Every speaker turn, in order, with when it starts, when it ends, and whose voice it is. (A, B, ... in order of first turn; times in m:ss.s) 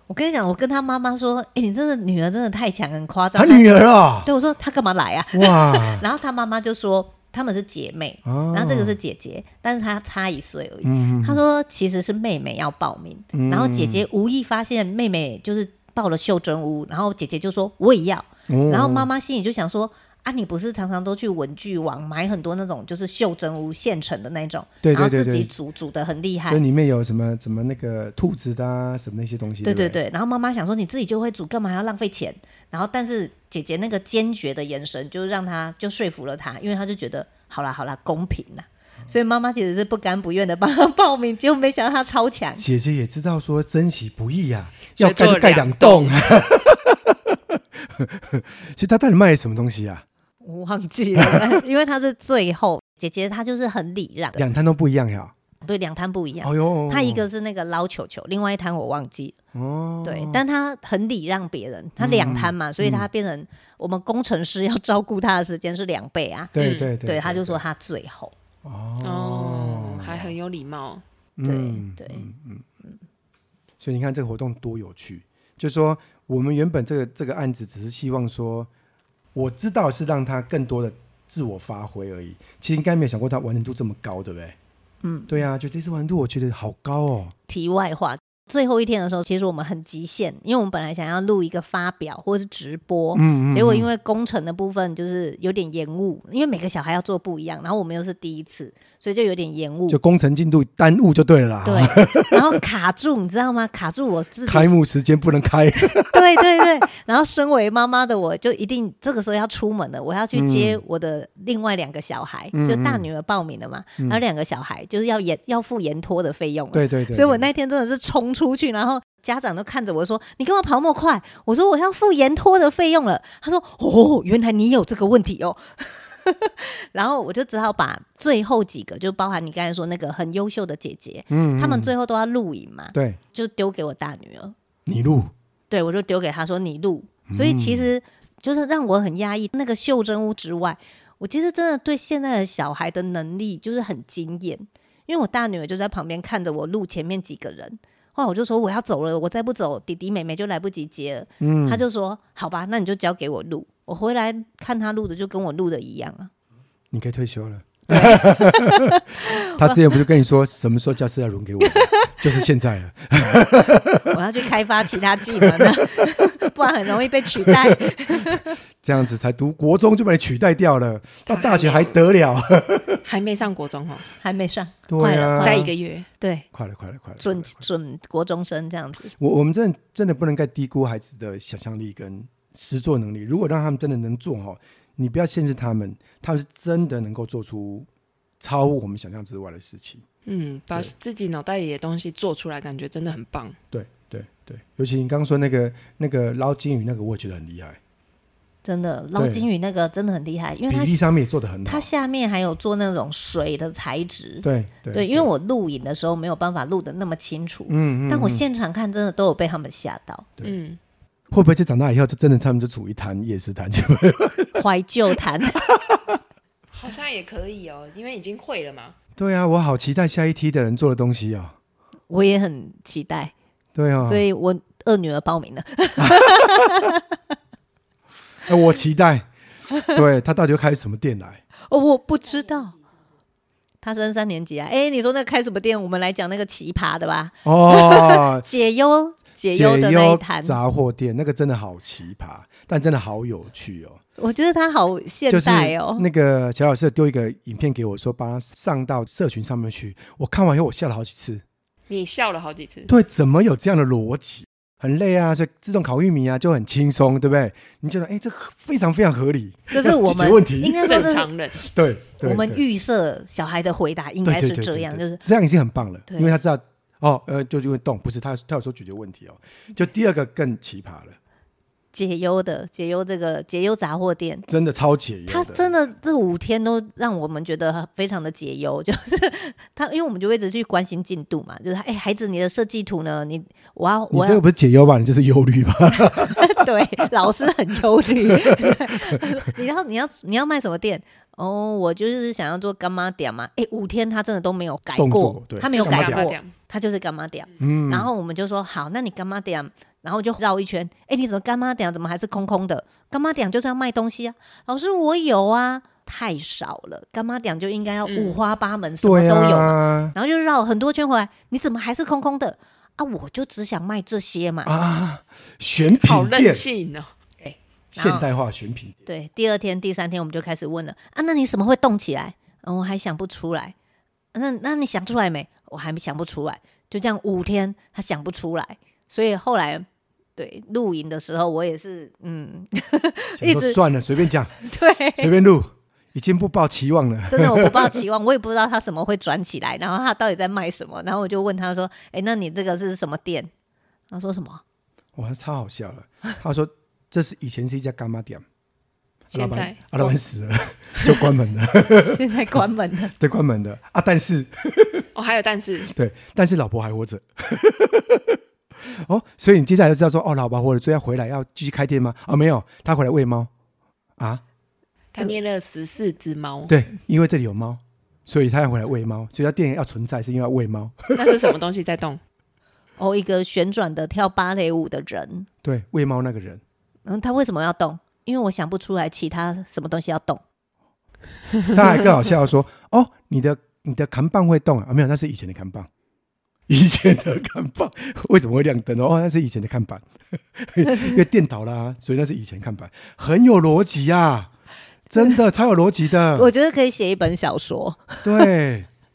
0:00.1-0:26.6 A
0:03.4-0:04.3 B
0:05.3-0:06.0 B
0:08.2-0:09.0 B
0:10.8-0:11.4 B
0:13.3-0:14.0 B
0:18.5-0:19.1 B
0:24.8-0:25.5 B
0:26.5-0:30.0 B
0:29.6-0:42.6 A
0:42.6-0:50.0 B
0:45.0-0:46.2 C
0:50.4-0:54.4 A
0:51.2-0:51.6 B
0:54.4-0:55.3 B
0:55.6-0:59.4 A
0:56.4-0:57.2 B
0:59.5-1:00.4 B
1:00.0-1:08.3 A
1:02.0-1:03.1 B
1:06.5-1:07.6 B
1:06.6-1:06.9 C
1:08.6-1:10.3 B
1:09.0-1:11.0 C
1:11.4-1:12.7 B
1:11.4-1:12.3 A
1:13.8-1:18.7 B
1:19.3-1:24.6 B
1:25.0-1:25.3 A
1:25.3-1:27.4 B
1:27.5-1:40.0 A
1:33.2-1:33.9 B
1:39.9-1:42.6 B
1:41.6-1:44.7 A
1:44.4-1:46.8 B
1:45.9-2:14.6 A
1:50.3-1:50.8 B
1:52.5-1:53.1 B
1:56.7-1:57.5 B
2:11.3-2:11.9 B
2:12.9-2:13.2 B
2:14.9-2:15.3 B
2:15.7-2:36.3 A
2:17.3-2:17.9 B
2:31.4-2:31.8 B
2:36.9-2:44.2 B
2:37.9-2:40.0 A
2:41.6-2:42.3 A
2:44.1-2:48.6 A
2:45.4-2:46.5 B
2:47.0-2:53.0 B
2:51.3-2:52.0 C
2:53.0-2:54.1 C
2:54.2-2:56.5 A
2:54.9-2:55.7 B
2:55.4-2:56.1 C
2:56.5-2:57.7 B
2:57.2-2:59.1 A
2:59.2-3:07.9 B
3:08.4-3:10.0 B
3:10.3-3:13.6 C
3:13.7-3:17.8 B
3:18.6-3:21.0 A
3:19.2-3:19.5 B
3:20.7-3:21.9 B
3:21.7-3:30.3 A
3:24.4-3:25.3 B
3:27.7-3:28.4 B
3:30.4-3:30.8 C
3:31.3-3:36.2 B
3:34.6-3:35.6 A
3:36.7-3:39.0 C
3:39.2-3:41.6 B
3:42.1-3:43.3 A
3:43.8-3:44.2 B
3:44.0-3:47.0 A
3:46.0-3:46.9 B
3:48.5-3:49.3 B
3:49.9-3:51.4 B
3:51.7-3:52.8 A
3:53.8-4:00.6 A
3:57.4-3:58.5 B
3:59.5-4:04.0 B
4:04.2-4:06.1 A
4:05.3-4:11.4 B
4:11.9-4:12.9 C
4:12.9-4:22.6 B
4:19.7-4:21.3 A
4:20.8-4:21.6 C
4:22.2-4:25.2 A
4:24.2-4:31.2 B
4:26.1-4:26.4 A
4:31.9-4:34.5 A
4:34.5-4:35.7 B
4:35.3-4:44.4 A
4:44.1-4:47.1 B
4:46.2-5:14.7 A
4:48.3-4:49.2 B
4:55.0-4:56.3 B
4:55.7-4:56.5 C
4:57.6-4:58.1 B
5:08.1-5:08.4 C
5:09.0-5:10.1 B
5:14.6-5:16.6 B
5:15.9-5:17.1 C
5:17.4-5:18.2 A
5:17.9-5:19.0 B
5:19.1-5:23.8 A
5:24.3-5:33.8 A
5:33.4-5:34.6 B
5:34.6-5:35.3 A
5:35.2-5:38.0 B
5:37.3-5:43.5 A
5:44.1-5:44.6 A
5:45.2-5:48.4 B
5:49.3-5:52.6 B
5:49.3-5:50.2 C
5:51.0-5:51.3 C
5:52.0-5:53.1 A
5:53.1-5:55.0 B
5:55.2-5:55.9 C
5:55.8-6:03.5 B
6:04.2-6:04.4 B
6:05.1-6:06.7 C
6:06.7-6:11.5 B
6:11.1-6:12.2 C
6:13.0-6:15.5 A
6:15.6-6:16.6 B
6:17.1-6:20.4 A
6:21.7-6:25.9 B
6:26.7-6:34.5 B
6:30.9-6:31.1 A
6:35.1-6:36.5 B
6:36.4-6:38.5 A
6:38.2-6:38.9 B